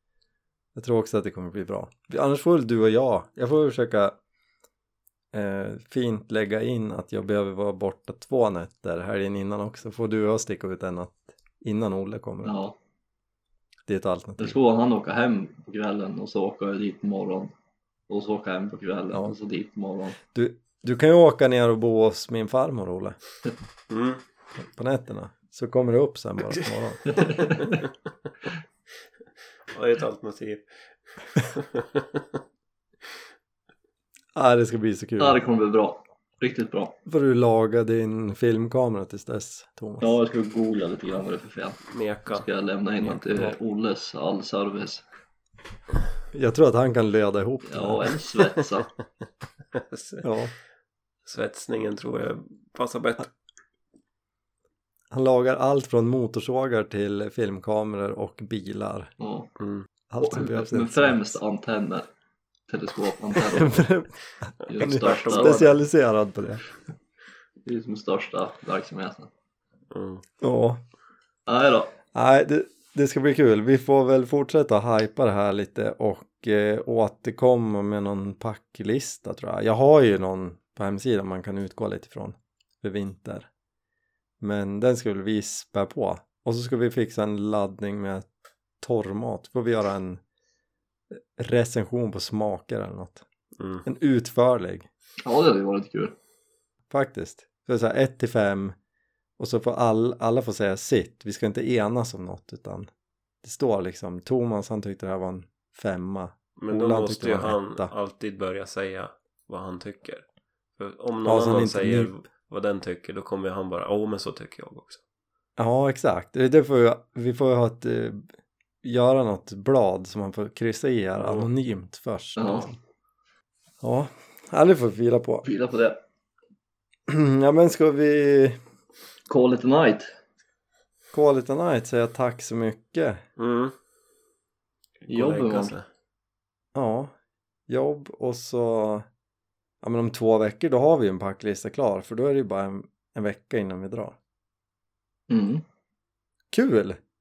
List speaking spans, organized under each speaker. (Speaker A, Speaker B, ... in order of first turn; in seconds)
Speaker A: 0.7-4.2, 5.3-12.5, 13.9-14.6, 20.3-23.2, 24.6-27.4, 34.3-35.4, 37.0-40.2, 43.1-43.5, 46.3-48.1, 50.2-50.5, 55.1-59.1, 60.1-61.4, 63.4-66.6, 70.4-70.8, 72.1-83.5, 84.4-88.3, 88.8-90.2, 91.3-93.2, 93.8-94.9, 96.9-98.7, 99.4-102.9, 103.4-107.9, 111.2-112.1, 115.6-118.2, 118.8-122.8, 123.8-125.4, 127.1-128.6, 131.1-133.2, 136.7-137.1, 137.7-139.0, 139.8-144.2, 146.5-147.0
Speaker B: 12.4-12.7, 14.4-17.5, 18.1-20.2, 27.1-27.7, 35.2-36.9, 40.0-45.0, 47.6-48.9, 59.2-59.5, 60.2-62.1, 62.7-63.8, 64.7-65.7, 67.7-69.3, 71.5-71.9, 95.2-96.1, 122.4-122.7, 125.4-126.0, 129.3-130.1, 135.1-135.7, 145.3-145.6
Speaker C: 23.9-24.2, 29.7-30.6, 31.4-32.2, 41.9-42.5, 49.7-50.3, 51.2-53.3, 59.6-59.9, 64.7-65.7, 69.9-70.2, 93.6-93.8, 106.6-110.2, 110.8-115.0, 121.2-121.5, 133.4-133.7, 135.0-135.8